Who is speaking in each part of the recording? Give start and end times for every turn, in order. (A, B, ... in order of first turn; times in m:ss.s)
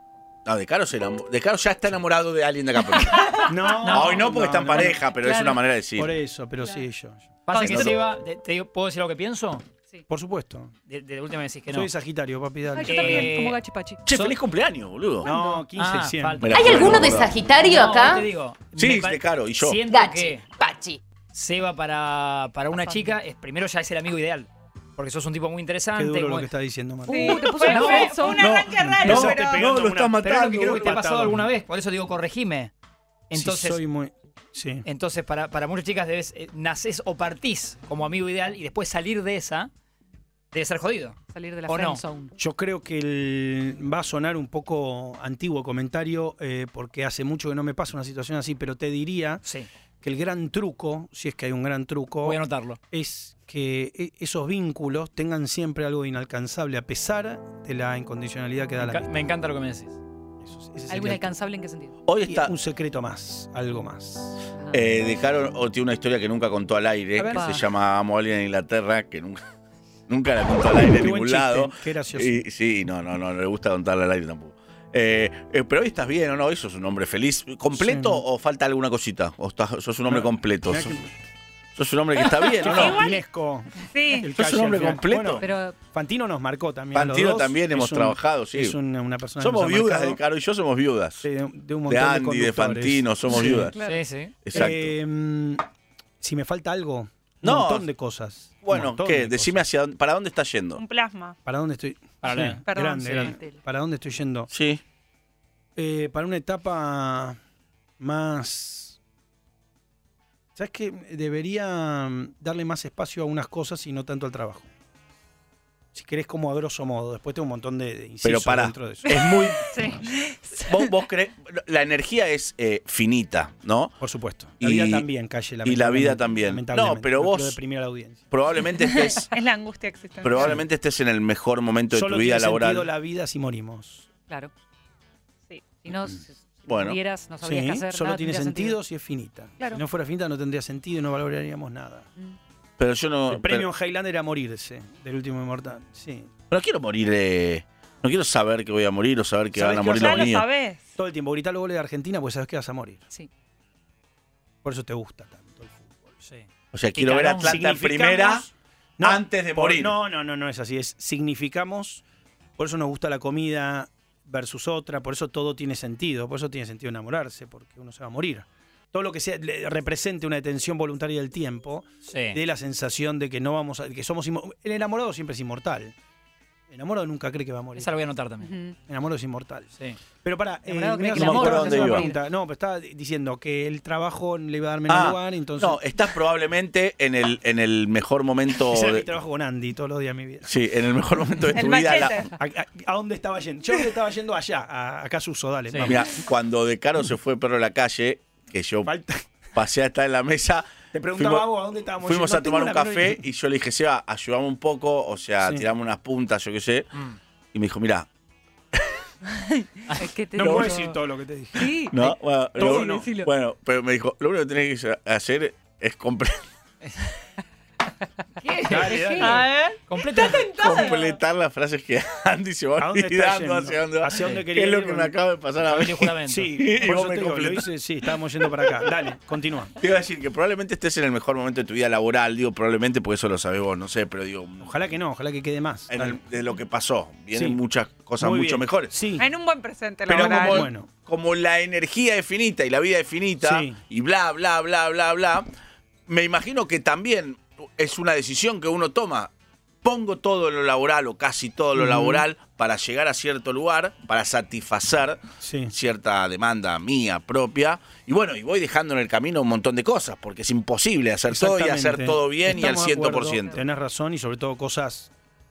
0:00.4-0:06.1 A
0:03.4-0:05.0 B
0:04.9-0:05.6 C
0:06.0-0:07.9 B
0:07.5-0:09.6 D
0:07.5-0:07.9 E
0:07.6-0:07.9 A
0:10.1-0:10.7 B
0:10.9-0:11.9 D
0:11.7-0:13.3 B
0:12.7-0:14.0 C
0:12.8-0:13.6 D
0:14.0-0:15.3 A
0:15.2-0:17.0 B
0:15.2-0:15.6 C
0:15.8-0:20.5 D
0:16.4-0:17.3 A
0:16.5-0:18.3 F
0:18.8-0:19.8 A
0:19.9-0:21.0 F
0:21.3-0:26.5 D
0:22.7-0:23.1 C
0:25.9-0:27.4 B
0:27.0-0:28.5 C
0:27.1-0:29.8 E
0:27.6-0:28.2 D
0:28.3-0:31.0 A
0:28.8-0:31.5 B
0:30.2-0:32.7 D
0:33.3-0:33.8 D
0:33.3-0:34.8 B
0:34.8-0:39.7 D
0:40.5-0:42.0 D
0:41.3-0:42.3 C
0:42.4-0:49.4 B
0:50.0-0:59.1 B
0:52.2-0:52.8 D
0:58.8-1:00.0 D
1:00.4-1:01.3 B
1:00.9-1:01.9 C
1:02.0-1:02.5 A
1:02.2-1:04.4 B
1:04.7-1:09.4 A
1:07.2-1:07.6 B
1:07.3-1:07.6 C
1:10.1-1:21.0 A
1:10.6-1:12.4 B
1:17.7-1:18.2 B
1:20.1-1:21.1 B
1:21.7-1:23.0 A
1:22.6-1:23.2 E
1:22.6-1:30.2 B
1:23.9-1:24.3 E
1:24.3-1:25.4 A
1:25.4-1:25.8 C
1:26.9-1:28.8 A
1:29.4-1:31.2 A
1:31.2-1:33.7 B
1:31.9-1:33.7 A
1:33.4-1:34.0 C
1:33.8-1:34.4 D
1:34.4-1:34.9 A
1:34.5-1:35.6 B
1:36.2-1:39.7 B
1:37.4-1:37.9 A
1:38.6-1:40.8 A
1:40.8-1:41.4 E
1:41.4-1:44.5 B
1:42.2-1:43.3 D
1:42.7-1:43.4 E
1:43.2-1:43.5 C
1:44.5-1:44.8 A
1:45.8-1:47.4 B
1:48.0-1:49.0 B
1:50.6-1:54.7 B
1:55.9-1:59.2 B
1:58.2-1:59.7 A
1:59.8-2:00.6 E
2:00.6-2:03.9 A
2:04.0-2:08.3 B
2:04.6-2:05.1 A
2:05.6-2:07.6 A
2:08.3-2:09.3 A
2:09.3-2:10.6 E
2:10.2-2:12.9 A
2:11.9-2:14.1 B
2:15.8-2:18.8 C
2:16.7-2:17.0 A
2:17.4-2:22.1 B
2:22.8-2:23.7 A
2:23.3-2:26.3 B
2:26.5-2:30.5 A
2:29.5-2:30.3 B
2:29.9-2:30.8 E
2:31.0-2:33.0 B
2:34.6-2:36.2 B
2:36.7-2:38.4 A
2:37.0-2:37.4 D
2:37.4-2:42.0 B
2:39.0-2:40.0 A
2:42.6-2:55.9 B
2:52.1-2:52.4 D
2:56.7-2:57.9 B
2:57.8-2:58.5 D
2:58.4-2:58.7 C
2:58.9-2:59.7 B
3:00.2-3:05.8 B
3:00.7-3:02.2 C
3:01.1-3:02.1 A
3:04.9-3:09.0 A
3:08.7-3:10.5 B
3:10.4-3:12.3 A
3:11.5-3:12.3 E
3:12.4-3:16.1 B
3:15.8-3:18.9 A
3:18.8-3:19.2 B
3:19.5-3:21.5 A
3:20.9-3:23.2 B
3:22.0-3:26.9 A
3:25.4-3:25.6 B
3:27.5-3:28.1 A
3:29.9-3:31.0 C
3:30.3-3:31.8 B
3:30.4-3:30.8 A
3:31.6-3:33.3 C
3:31.9-3:36.4 A
3:32.6-3:33.1 B
3:38.4-3:39.4 D
3:38.5-3:39.3 C
3:38.7-3:39.4 B
3:39.2-3:41.2 E
3:39.9-3:40.5 D
3:40.5-3:47.7 A
3:42.8-3:45.1 B
3:45.7-3:46.5 D
3:46.2-3:49.7 B
3:49.8-3:54.7 A
3:54.6-3:56.2 B
3:55.9-3:58.9 A
3:57.3-3:57.6 B
3:58.2-3:59.3 B
3:59.2-4:00.6 E
4:00.0-4:05.5 A
4:00.1-4:00.9 B
4:03.4-4:03.8 B
4:06.1-4:09.3 A
4:09.8-4:15.2 A
4:11.7-4:12.2 B
4:15.4-4:15.7 B
4:15.7-4:23.6 A
4:21.3-4:25.1 B